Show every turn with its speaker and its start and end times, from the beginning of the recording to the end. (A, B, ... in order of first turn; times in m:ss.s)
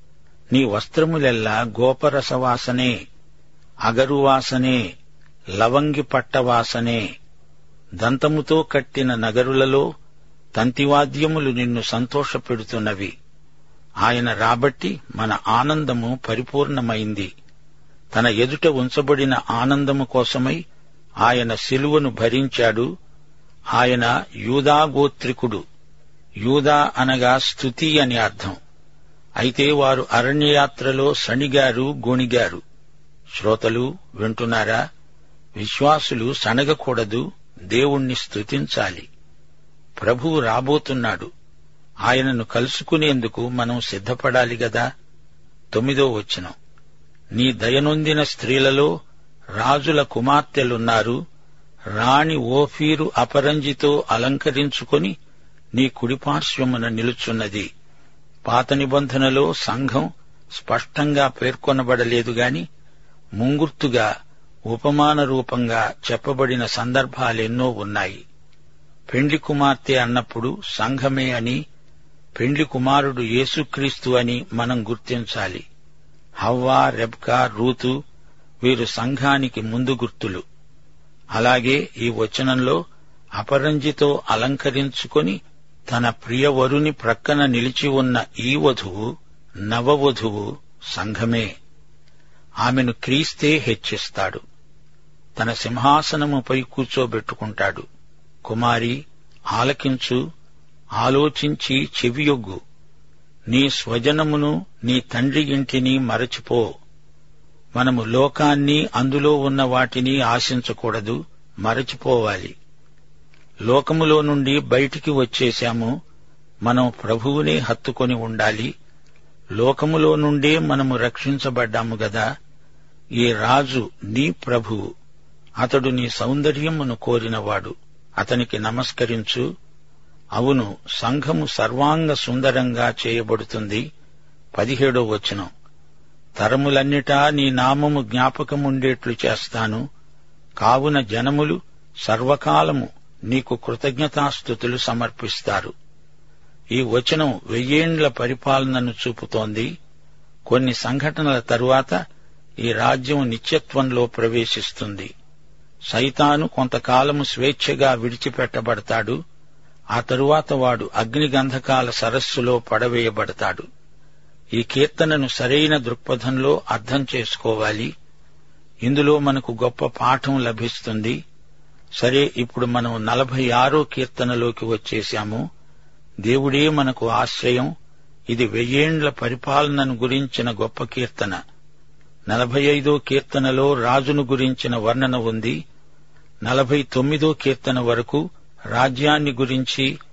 0:00.5-0:02.9 A
0:03.8-0:04.8 A
0:05.6-0:07.0 A
0:08.0-0:09.8 A
0:10.6-0:13.1 A
0:14.0-0:17.3 A
0:18.1-0:20.6 A
0:21.2-0:22.9 A
0:23.7-0:25.6 A
0:26.4-0:28.6 A
0:29.4-0:32.6 A
0:33.3-0:34.8 A
0:35.6-0:39.1 A
0:40.0-0:41.3 A
0:42.0-0:44.8 A
0:45.7-0:46.5 A
0:47.3-0:48.9 A
0:49.6-0:51.2 A
0:52.0-0:55.1 A
0:55.8-0:57.7 A
0:58.4-1:02.6 A
1:03.4-1:04.1 A
1:04.7-1:08.2 A
1:09.1-1:11.6 A
1:12.4-1:15.6 A
1:16.4-1:17.9 A
1:18.6-1:20.4 A
1:21.3-1:22.8 A
1:23.4-1:29.1 A
1:29.7-1:31.5 A
1:32.6-1:34.4 A
1:35.4-1:37.8 A
1:38.4-1:39.0 A
1:39.5-1:40.2 A
1:41.0-1:42.6 A
1:43.5-1:46.6 A
1:47.8-1:52.5 A
1:53.7-1:55.9 A
1:56.6-1:58.7 A
1:59.6-2:02.2 A
2:03.2-2:04.8 A
2:05.6-2:09.4 A
2:10.4-2:13.8 A
2:14.5-2:15.5 A
2:16.4-2:19.8 A
2:20.6-2:25.7 A
2:26.7-2:29.7 A
2:30.5-2:32.0 A
2:32.6-2:35.1 A
2:35.9-2:39.2 A
2:39.9-2:43.6 A
2:44.6-2:47.9 A
2:48.8-2:51.2 A
2:52.0-2:55.4 A
2:56.2-2:57.7 A
2:58.3-3:01.4 A
3:02.3-3:05.6 A
3:06.4-3:08.2 A
3:08.7-3:09.9 A